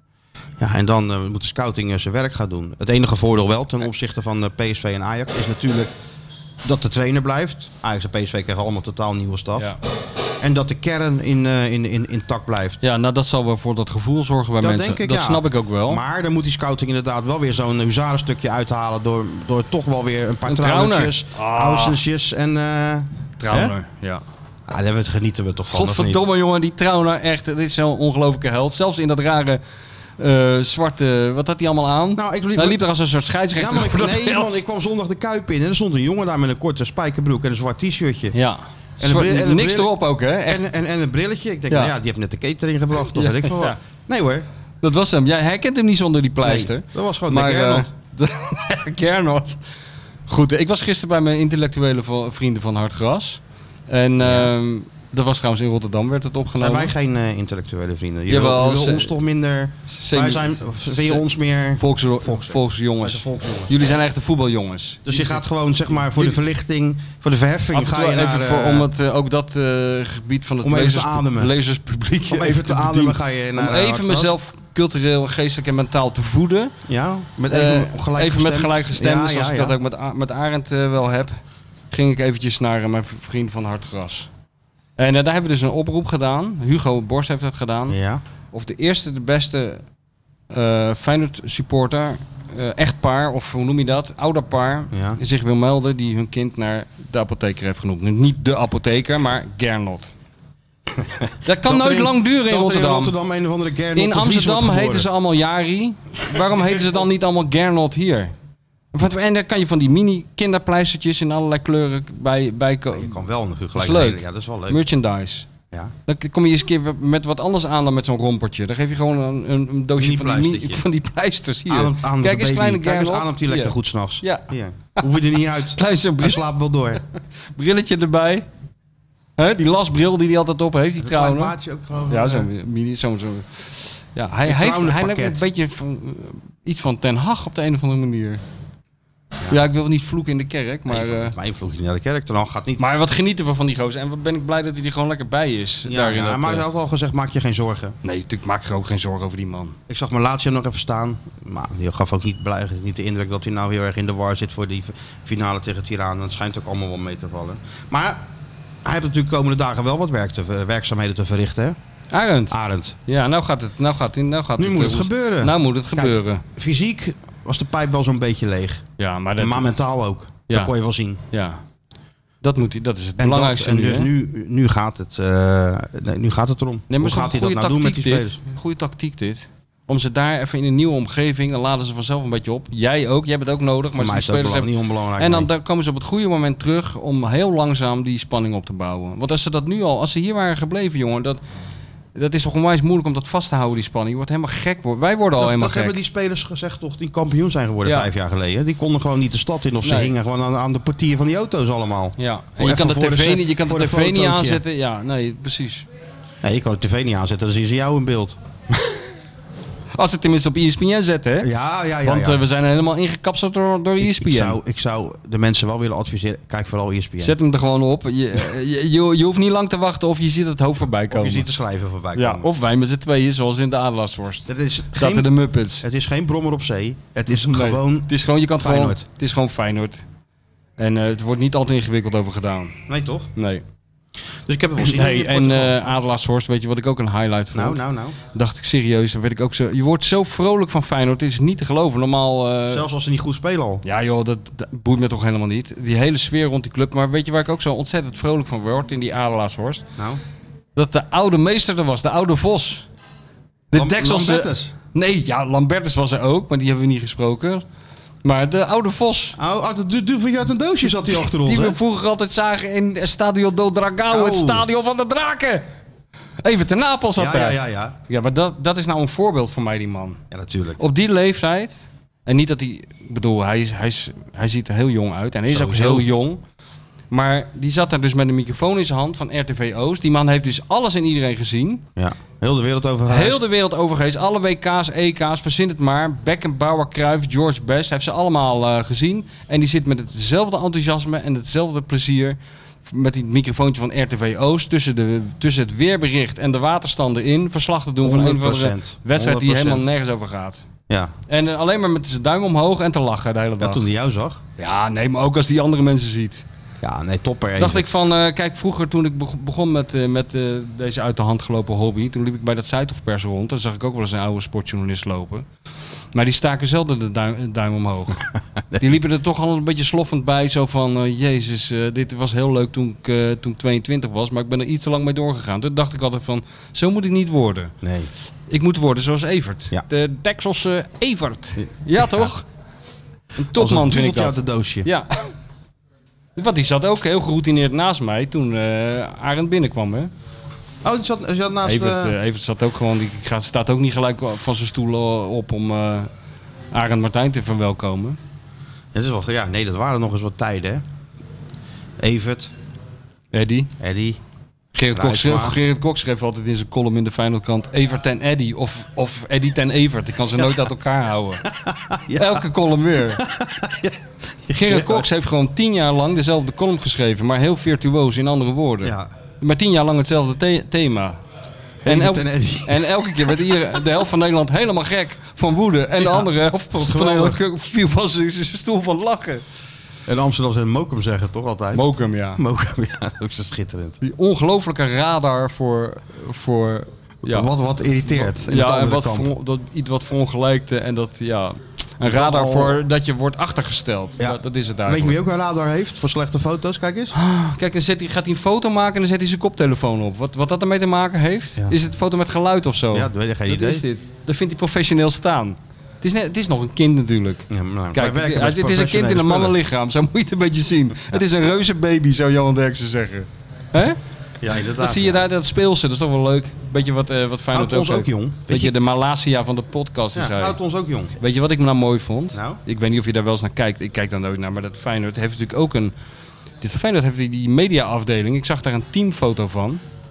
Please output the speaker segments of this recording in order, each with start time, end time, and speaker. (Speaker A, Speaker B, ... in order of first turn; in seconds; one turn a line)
Speaker A: 0.6-5.9
Speaker A: 6.6-9.8
Speaker A: 10.4-12.8
Speaker B: 12.8-16.0
Speaker A: 14.6-23.7
Speaker B: 20.4-22.0
Speaker B: 23.4-24.2
Speaker A: 24.7-26.2
Speaker B: 25.7-29.6
Speaker B: 30.2-34.6
Speaker A: 32.1-32.8
Speaker A: 33.5-38.4
Speaker B: 38.3-40.7
Speaker A: 39.0-39.9
Speaker A: 40.5-44.5
Speaker B: 43.1-43.8
Speaker B: 44.8-49.6
Speaker A: 46.4-47.9
Speaker B: 50.3-56.9
Speaker A: 54.2-54.5
Speaker A: 56.6-63.9
Speaker B: 58.3-59.1
Speaker B: 59.9-61.2
Speaker B: 61.7-65.4
Speaker A: 65.0-68.9
Speaker B: 66.0-66.3
Speaker B: 67.7-76.7
Speaker A: 70.6-71.5
Speaker A: 72.3-74.3
Speaker A: 76.9-79.7
Speaker B: 77.5-81.3
Speaker B: 81.9-84.3
Speaker B: 85.0-88.0
Speaker A: 87.9-88.2
Speaker B: 88.5-89.8
Speaker B: 90.5-100.1
Speaker A: 94.9-95.2
Speaker A: 101.0-105.1
Speaker B: 101.4-103.1
Speaker B: 103.9-108.3
Speaker B: 108.9-113.2
Speaker A: 112.9-114.8
Speaker B: 113.7-115.5
Speaker B: 116.1-125.0
Speaker A: 120.0-120.8
Speaker A: 121.7-127.0
Speaker B: 125.7-126.4
Speaker B: 127.5-128.4
Speaker B: 129.4-131.5
Speaker A: 131.0-132.5
Speaker B: 132.1-138.4
Speaker A: 134.4-135.4
Speaker B: 139.5-141.3
Speaker A: 140.9-142.8
Speaker B: 142.8-146.7
Speaker A: 145.8-148.0
Speaker B: 148.0-149.8
Speaker A: 149.9-158.2
Speaker A: 158.8-161.8
Speaker B: 162.1-166.4
Speaker A: 162.5-163.0
Speaker A: 164.6-168.8
Speaker B: 169.0-169.7
Speaker A: 169.4-171.2
Speaker B: 171.3-171.6
Speaker B: 172.4-174.1
Speaker A: 173.2-178.4
Speaker B: 176.9-191.4
Speaker A: 183.9-185.5
Speaker B: 192.1-195.9
Speaker A: 195.4-204.6
Speaker B: 197.8-198.1
Speaker B: 199.8-200.1
Speaker B: 202.2-205.9
Speaker A: 206.4-208.3
Speaker B: 209.9-211.5
Speaker A: 211.4-212.4
Speaker B: 212.0-214.6
Speaker A: 214.0-217.3
Speaker B: 217.2-221.5
Speaker A: 221.1-222.5
Speaker B: 222.1-225.8
Speaker A: 224.5-229.0
Speaker B: 227.3-230.0
Speaker B: 230.8-232.8
Speaker A: 232.9-233.3
Speaker B: 233.3-233.6
Speaker A: 234.5-235.9
Speaker B: 234.8-242.9
Speaker A: 237.5-238.2
Speaker A: 242.7-243.8
Speaker B: 243.8-249.8
Speaker B: 250.8-252.9
Speaker B: 253.7-257.6
Speaker A: 253.7-254.7
Speaker B: 258.2-259.4
Speaker A: 259.4-261.8
Speaker B: 261.1-265.6
Speaker A: 264.1-264.6
Speaker B: 266.4-270.2
Speaker A: 267.1-268.0
Speaker A: 270.3-270.8
Speaker B: 270.8-276.4
Speaker A: 275.5-276.1
Speaker B: 277.1-281.8
Speaker A: 281.9-283.4
Speaker B: 283.1-300.7
Speaker A: 298.0-299.9
Speaker B: 301.3-303.8
Speaker A: 303.6-304.4
Speaker B: 304.6-306.4
Speaker A: 306.8-307.9
Speaker B: 307.6-315.4
Speaker B: 316.1-327.7
Speaker A: 327.8-328.1
Speaker B: 328.5-332.4
Speaker A: 332.0-332.3
Speaker B: 333.4-335.3
Speaker A: 333.5-334.9
Speaker B: 336.4-340.1
Speaker A: 340.8-342.1
Speaker B: 341.6-346.1
Speaker B: 346.7-348.2
Speaker A: 348.9-350.8
Speaker A: 352.0-352.5
Speaker B: 353.3-353.7
Speaker A: 353.8-354.2
Speaker B: 354.7-361.4
Speaker A: 354.9-355.6
Speaker A: 361.5-362.5
Speaker B: 362.1-363.2
Speaker A: 363.2-365.1
Speaker B: 364.5-371.2
Speaker A: 368.8-369.1
Speaker A: 371.8-373.6
Speaker B: 371.9-379.4
Speaker A: 376.0-377.4
Speaker A: 380.1-384.0
Speaker B: 381.7-382.4
Speaker B: 384.0-387.5
Speaker A: 387.2-389.3
Speaker B: 388.1-395.1
Speaker A: 392.0-392.8
Speaker A: 394.2-397.1
Speaker B: 397.1-414.0
Speaker A: 402.9-403.8
Speaker A: 407.5-409.6
Speaker A: 414.4-415.3
Speaker B: 414.8-420.6
Speaker A: 417.5-418.7
Speaker A: 420.1-421.1
Speaker B: 421.2-425.9
Speaker A: 422.3-422.6
Speaker B: 426.6-429.8